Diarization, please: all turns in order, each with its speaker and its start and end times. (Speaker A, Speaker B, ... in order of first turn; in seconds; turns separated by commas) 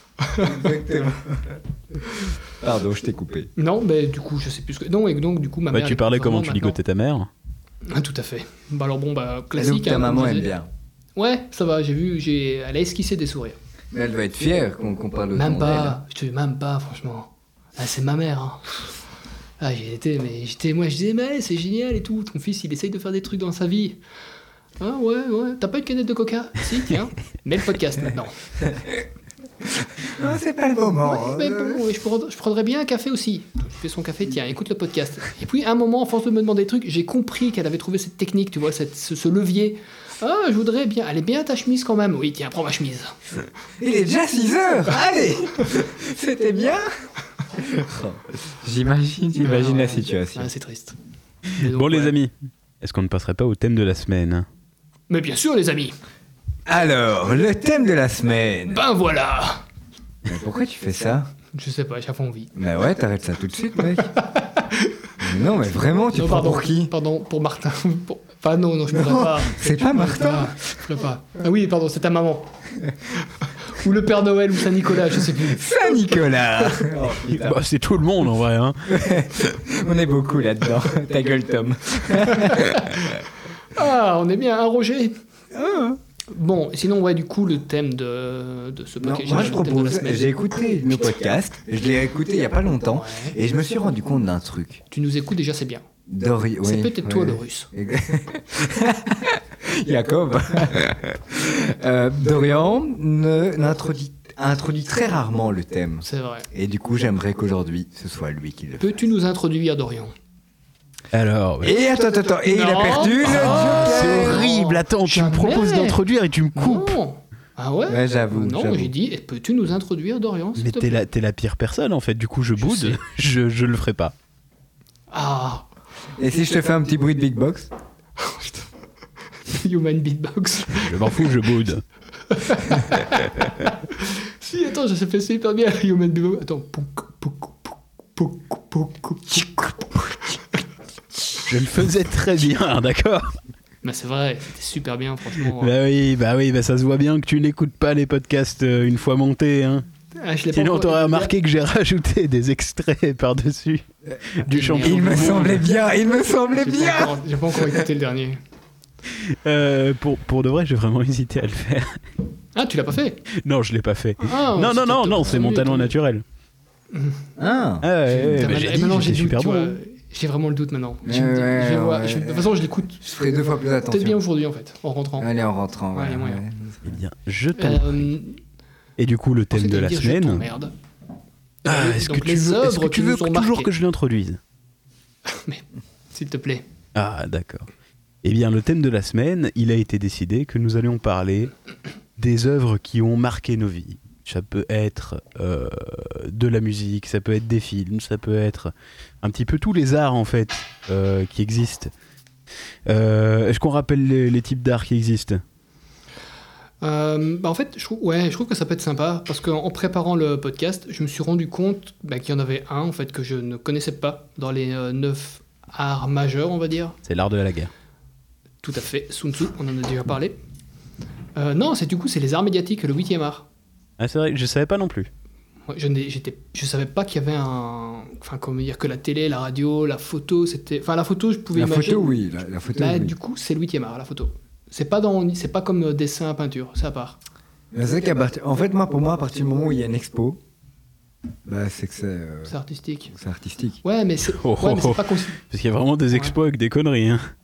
Speaker A: 0.2-0.6, Speaker B: 0.4-3.5, Speaker A: 3.6-6.8, Speaker C: 5.7-7.3, Speaker A: 7.8-10.5, Speaker B: 9.5-10.7, Speaker A: 11.2-13.6, Speaker B: 13.9-16.0, Speaker A: 15.3-18.9, Speaker A: 19.6-24.0, Speaker A: 24.8-28.4, Speaker B: 29.8-31.8, Speaker A: 31.0-43.1, Speaker B: 43.8-46.9, Speaker B: 47.5-50.5, Speaker A: 49.4-51.0, Speaker A: 51.5-52.1, Speaker C: 51.6-54.5, Speaker A: 55.1-56.0, Speaker B: 56.6-58.8, Speaker A: 58.7-59.6, Speaker B: 60.2-61.3, Speaker A: 61.5-62.5, Speaker B: 62.5-64.1, Speaker A: 64.2-64.9, Speaker B: 65.2-66.9, Speaker A: 66.1-72.5, Speaker B: 68.9-70.8, Speaker A: 73.4-76.0, Speaker B: 75.2-77.6, Speaker A: 76.6-76.9, Speaker C: 77.3-79.0, Speaker B: 78.9-83.2, Speaker A: 82.3-82.9, Speaker A: 83.7-85.2, Speaker B: 85.5-86.0, Speaker A: 86.3-90.3, Speaker B: 89.0-94.8, Speaker A: 92.9-93.3, Speaker A: 94.9-95.8, Speaker B: 96.1-109.0, Speaker A: 96.6-97.7, Speaker A: 106.0-106.5, Speaker A: 108.8-110.1, Speaker C: 111.1-111.8, Speaker B: 111.6-114.4, Speaker A: 112.5-116.0, Speaker C: 113.2-116.9, Speaker A: 116.5-121.0, Speaker B: 117.9-118.9, Speaker C: 120.6-124.1, Speaker A: 122.6-123.0, Speaker A: 125.1-125.7, Speaker B: 126.2-127.7, Speaker A: 128.2-128.7, Speaker A: 129.5-131.3, Speaker C: 130.8-131.8, Speaker A: 132.3-140.4, Speaker C: 141.4-143.4, Speaker A: 143.8-145.7, Speaker C: 145.6-149.8, Speaker A: 150.2-151.3, Speaker C: 150.5-153.8, Speaker B: 154.1-157.2, Speaker A: 154.4-155.6, Speaker C: 154.4-155.6, Speaker A: 156.6-158.4, Speaker C: 159.2-162.0, Speaker A: 162.5-163.2, Speaker C: 163.4-166.2, Speaker A: 164.2-165.9, Speaker A: 166.9-167.2, Speaker B: 167.4-167.9, Speaker C: 167.8-169.8, Speaker A: 168.1-173.0, Speaker B: 171.0-174.2, Speaker A: 173.9-175.3, Speaker B: 175.2-177.0, Speaker A: 175.9-176.4, Speaker C: 176.8-178.1, Speaker A: 177.6-178.4, Speaker C: 179.0-180.5, Speaker A: 179.5-180.7, Speaker A: 181.6-183.7, Speaker C: 181.7-184.4, Speaker A: 185.3-186.6, Speaker C: 186.9-187.7, Speaker C: 188.2-191.5, Speaker C: 192.2-201.9, Speaker C: 202.9-205.4, Speaker A: 206.8-217.0, Speaker C: 217.1-217.7, Speaker A: 218.6-220.4, Speaker A: 221.3-223.5, Speaker C: 224.0-225.1, Speaker A: 225.7-232.1, Speaker B: 231.5-233.1, Speaker A: 232.8-237.2, Speaker B: 237.7-240.4, Speaker B: 241.4-242.5, Speaker A: 242.5-243.1, Speaker B: 243.1-243.8, Speaker A: 243.8-245.4, Speaker C: 244.3-247.2